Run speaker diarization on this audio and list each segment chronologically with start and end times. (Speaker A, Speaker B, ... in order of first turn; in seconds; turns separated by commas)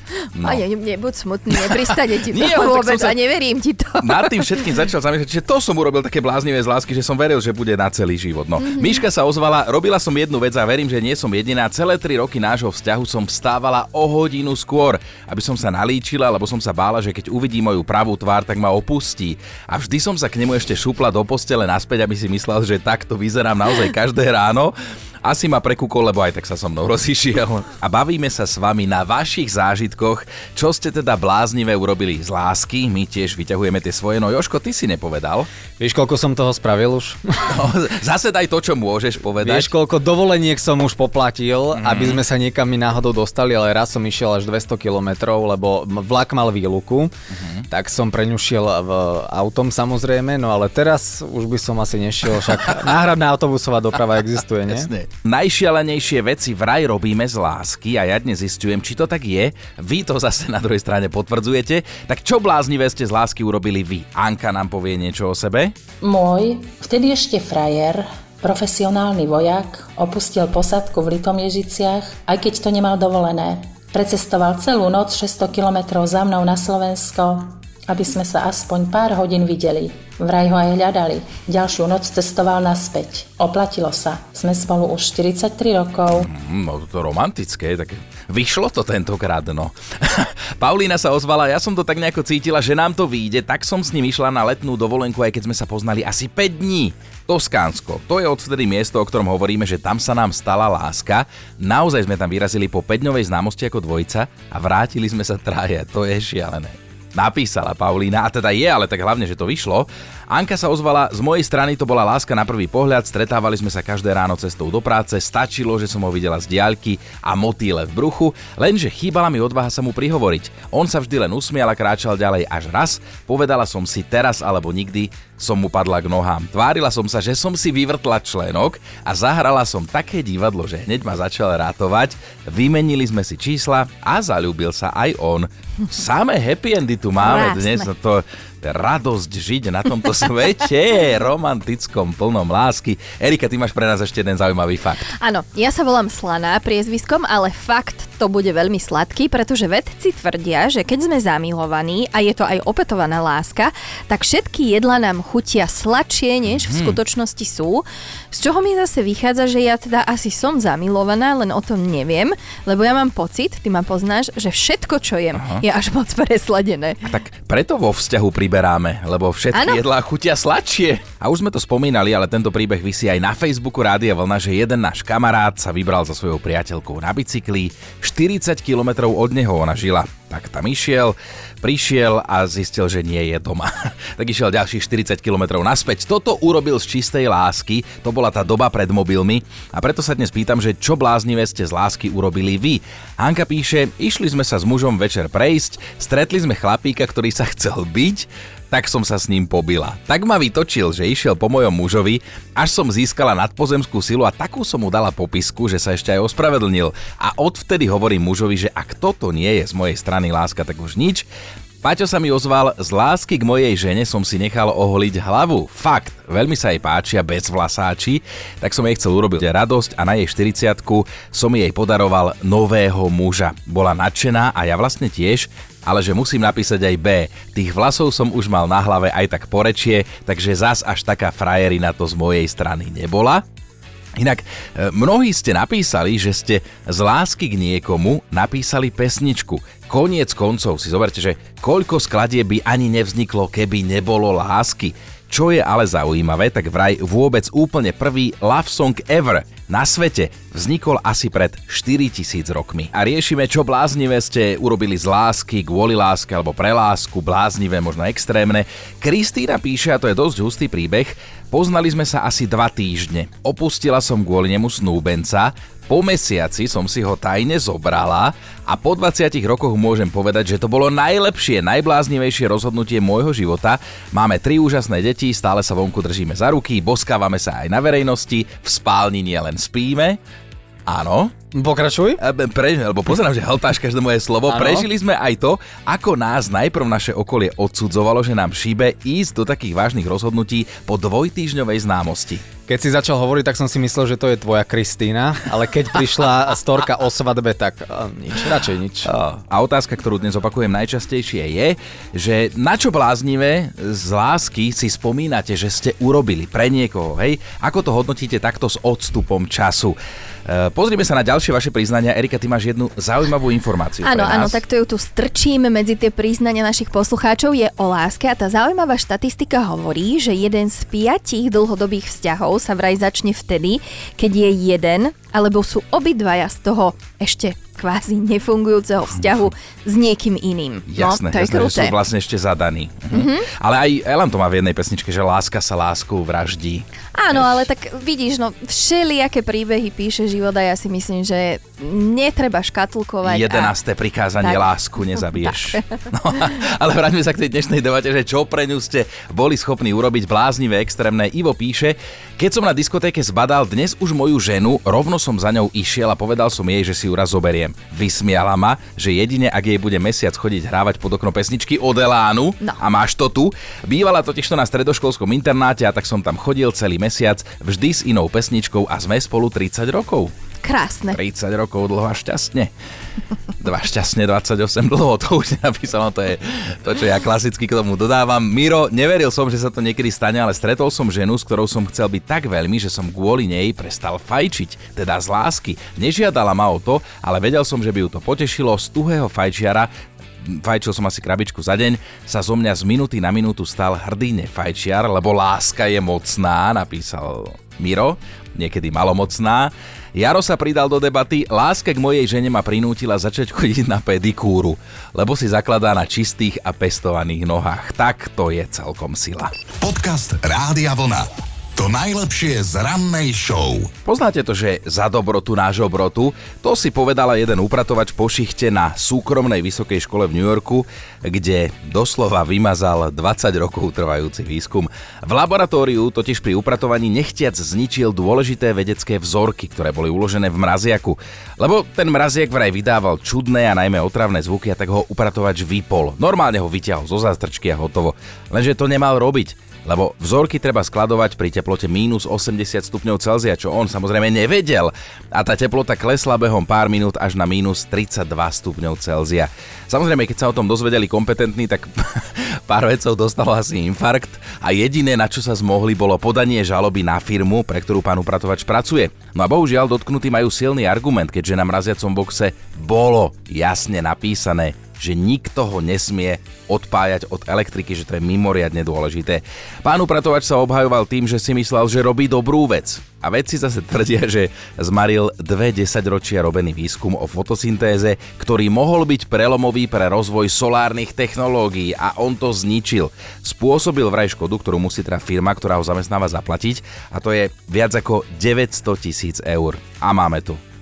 Speaker A: 0.4-0.6, Speaker B: 0.4-4.7, Speaker A: 1.7-3.2, Speaker A: 4.0-35.5, Speaker B: 8.6-9.0, Speaker C: 35.8-37.6, Speaker A: 37.5-39.7, Speaker C: 39.4-47.1, Speaker A: 41.7-42.2, Speaker A: 47.3-47.6, Speaker C: 47.7-54.9, Speaker A: 52.4-52.9, Speaker A: 54.7-65.7, Speaker D: 66.0-86.3, Speaker A: 86.1-145.1, Speaker B: 137.2-137.9, Speaker B: 145.2-167.0, Speaker A: 156.5-157.0, Speaker A: 167.1-211.3, Speaker B: 169.5-169.8, Speaker A: 211.8-233.4, Speaker A: 234.2-280.2, Speaker A: 280.9-281.4, Speaker C: 281.5-282.2, Speaker A: 282.2-292.5, Speaker C: 284.5-284.9, Speaker C: 292.5-299.1, Speaker A: 299.1-310.0, Speaker A: 310.5-314.6, Speaker B: 314.0-332.0, Speaker A: 330.9-337.7, Speaker B: 333.1-333.5, Speaker B: 337.2-343.7, Speaker A: 343.2-370.3, Speaker B: 344.4-345.8, Speaker B: 370.6-371.2, Speaker A: 371.1-372.7, Speaker A: 373.6-389.9, Speaker A: 390.4-409.5, Speaker E: 409.8-413.9, Speaker A: 414.1-490.6